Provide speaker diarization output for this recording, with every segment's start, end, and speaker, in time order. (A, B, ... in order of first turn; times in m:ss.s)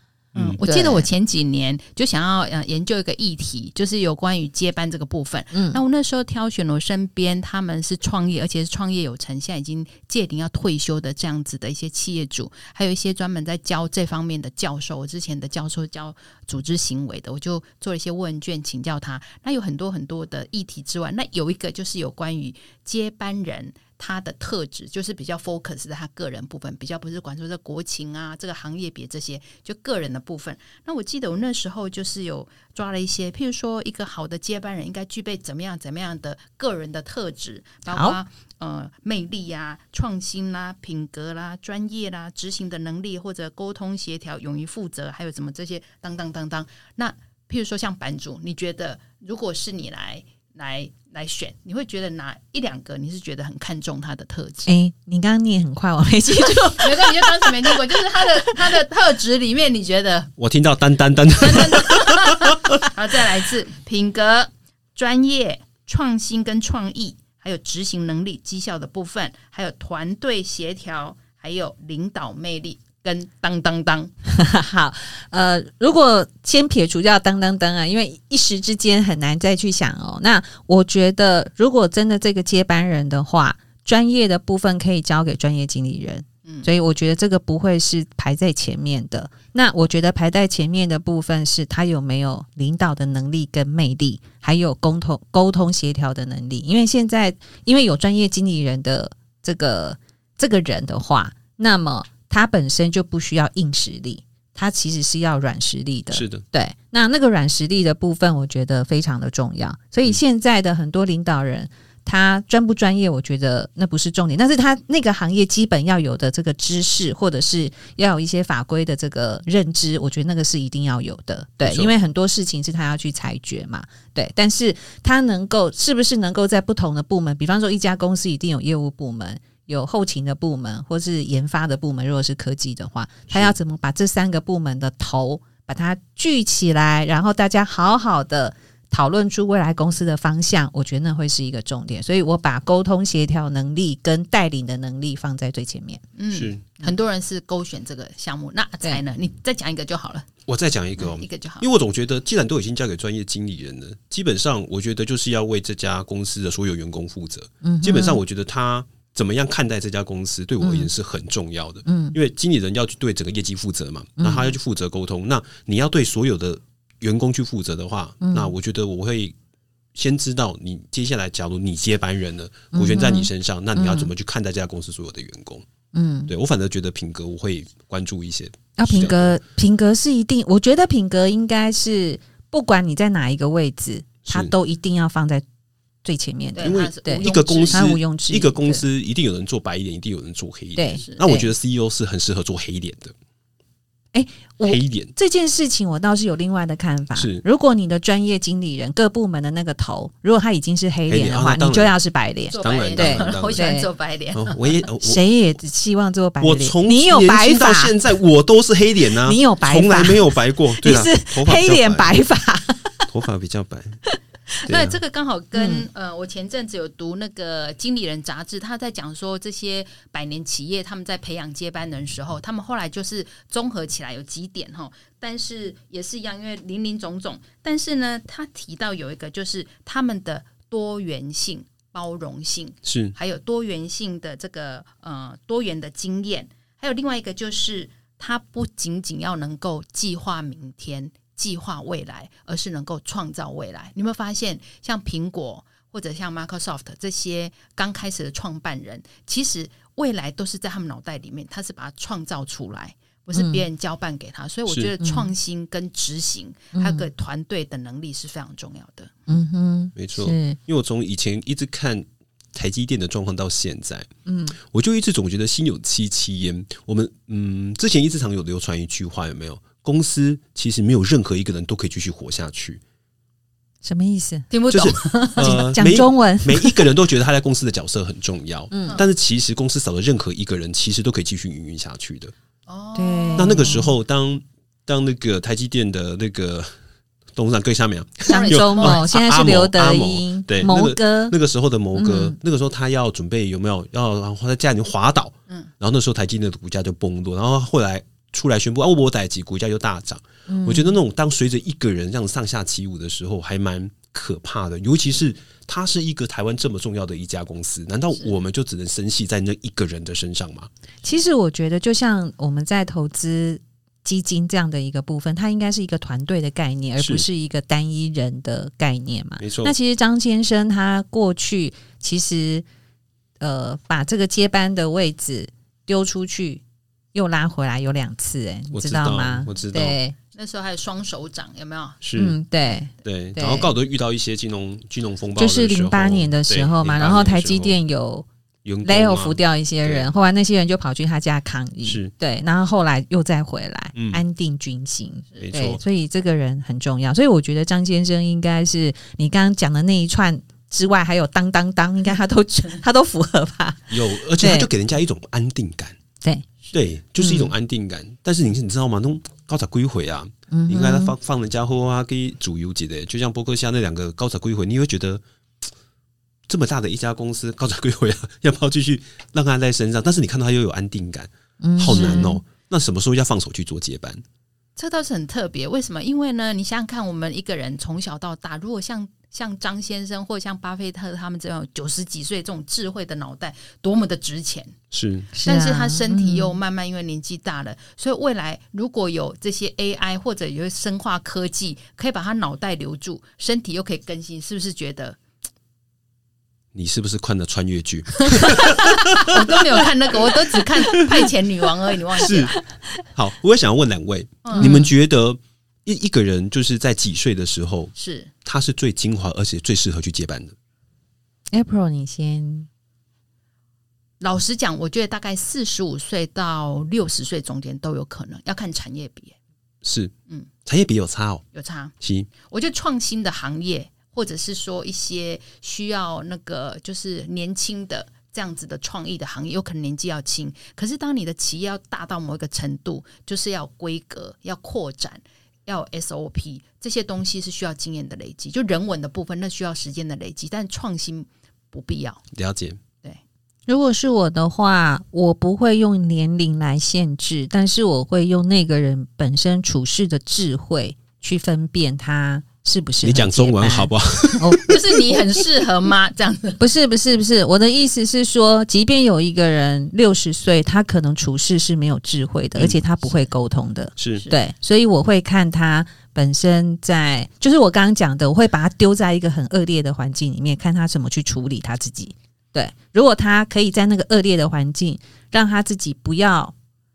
0:00.4-0:00.6 A
0:00.4-0:54.7 B
0:00.6-0:01.1 C
0:05.5-0:05.8 C
0:37.9-0:38.2 C
0:54.6-0:58.5 C
0:56.8-1:00.3 B
1:00.4-1:02.8 A
1:01.4-1:14.1 B
1:14.3-2:26.0 C
1:26.4-1:26.7 B
1:46.1-1:46.4 A
2:01.6-2:01.9 A
2:13.3-2:13.6 A
2:26.2-2:30.3 B
2:26.3-2:26.6 A
2:30.5-2:49.4 A
2:31.0-2:31.6 B
2:37.6-2:38.2 C
2:40.6-2:40.9 C
2:41.8-2:42.2 C
2:44.2-2:44.5 C
2:48.2-2:48.5 C
2:49.9-2:55.6 A
2:52.7-2:54.1 C
2:55.9-2:56.3 C
2:56.3-2:59.4 A
2:58.8-3:05.4 C
3:04.2-3:04.5 A
3:06.0-3:08.8 C
3:06.6-3:07.8 B
3:06.6-3:13.1 A
3:10.8-3:11.5 C
3:11.0-3:11.3 B
3:14.1-3:23.9 C
3:14.6-3:15.1 A
3:17.2-3:17.4 A
3:21.1-3:21.9 A
3:22.5-3:24.7 B
3:22.6-3:23.6 A
3:24.3-3:25.2 A
3:25.0-3:27.9 C
3:26.4-3:32.1 A
3:29.2-3:33.1 C
3:33.1-3:34.0 A
3:34.6-4:19.3 B
3:34.6-3:35.0 A
3:35.6-3:35.9 C
3:52.8-3:53.1 A
4:13.3-4:13.6 C
4:14.7-4:14.9 A
4:15.0-4:15.3 C
4:16.7-4:17.1 C
4:19.3-4:20.6 C
4:20.0-4:24.1 A
4:24.2-4:24.6 C
4:24.6-4:32.8 A
4:33.8-4:34.5 C
4:34.5-4:35.6 B
4:34.7-4:42.3 A
4:35.4-4:36.8 C
4:38.7-4:39.0 C
4:42.7-4:43.9 B
4:42.9-4:43.9 C
4:43.4-4:46.7 A
4:47.4-5:10.7 A
4:48.2-4:51.4 C
4:48.3-4:49.0 B
4:51.9-4:52.4 C
5:00.5-5:01.0 C
5:11.0-5:22.6 C
5:17.0-5:17.2 A
5:19.4-5:19.7 A
5:23.4-5:26.6 C
5:27.1-5:30.2 C
5:28.7-5:30.0 A
5:30.3-5:32.0 B
5:32.0-5:32.4 A
5:32.2-5:33.7 C
5:33.0-5:37.8 A
5:35.4-5:38.2 C
5:38.6-5:40.1 A
5:38.8-5:54.7 C
5:41.8-5:42.1 A
5:43.9-5:44.2 A
5:45.4-5:45.8 A
5:53.9-5:56.0 A
5:56.7-6:05.2 A
5:57.2-5:57.5 C
6:00.5-6:01.1 C
6:06.5-6:14.2 A
6:11.6-6:12.4 C
6:11.9-6:12.3 B
6:14.8-6:24.8 B
6:24.9-6:25.3 A
6:25.3-6:26.6 C
6:25.4-6:35.2 B
6:36.7-6:41.3 A
6:38.2-6:42.5 B
6:42.2-6:42.6 A
6:43.1-6:47.9 A
6:44.4-6:44.8 B
6:44.6-6:44.9 C
6:48.0-6:48.3 B
6:48.4-6:50.6 A
6:51.5-6:52.7 C
6:54.2-6:59.4 B
6:59.8-7:00.1 A
7:00.6-7:01.4 A
7:01.5-7:22.2 B
7:02.0-7:02.3 A
7:22.3-7:22.8 A
7:23.7-7:34.6 C
7:33.0-7:35.4 A
7:34.2-7:36.6 B
7:36.6-7:56.5 C
7:42.6-7:42.8 A
7:44.0-7:44.3 A